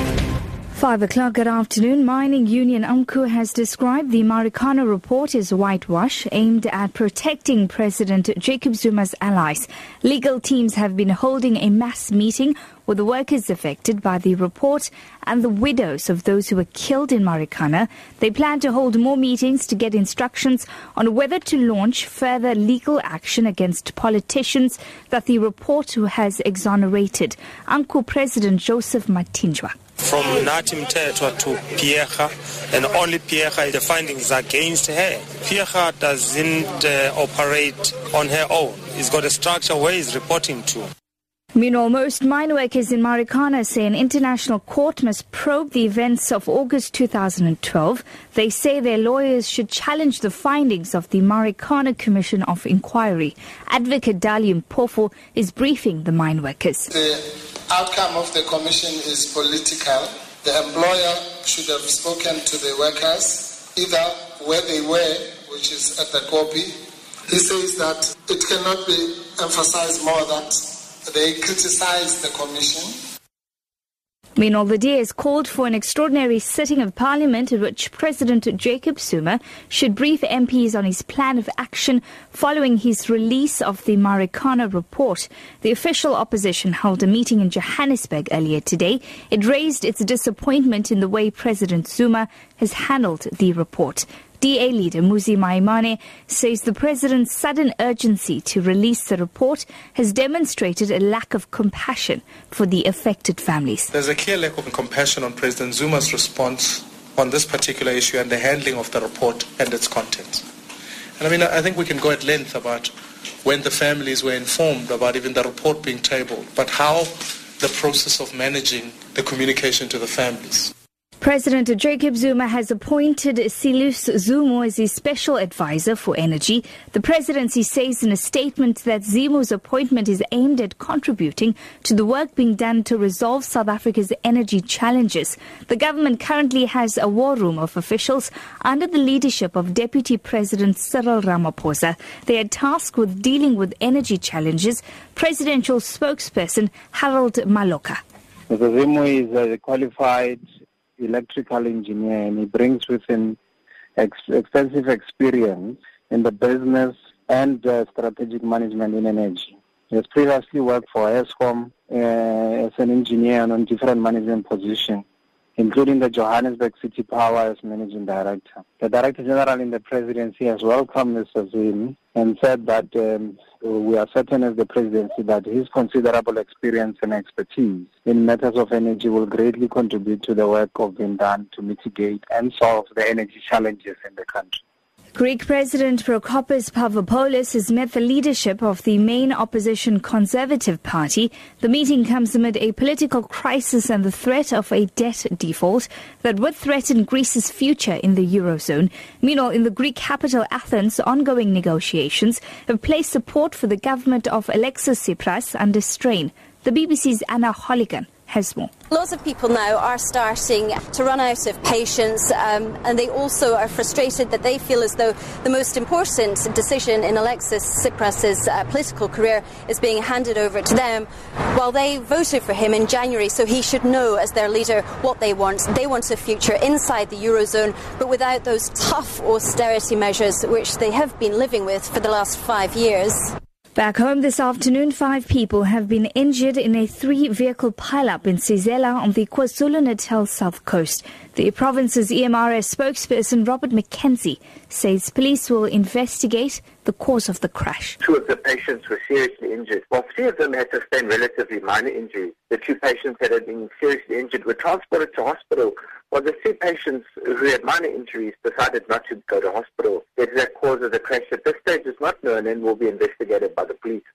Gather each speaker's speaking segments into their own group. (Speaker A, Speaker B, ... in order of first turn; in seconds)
Speaker A: 0.7-29.7, 41.5-56.9, 74.4-103.9, 121.2-148.0, 185.1-208.7, 233.8-248.0
Speaker B: 30.0-40.9
Speaker C: 56.9-66.7, 67.3-72.9
Speaker D: 103.9-110.4, 111.2-112.9, 113.4-120.7
Speaker E: 148.5-150.4, 151.0-153.4, 154.0-165.0, 165.6-184.6
Speaker F: 208.9-233.3
Speaker G: 248.0-264.0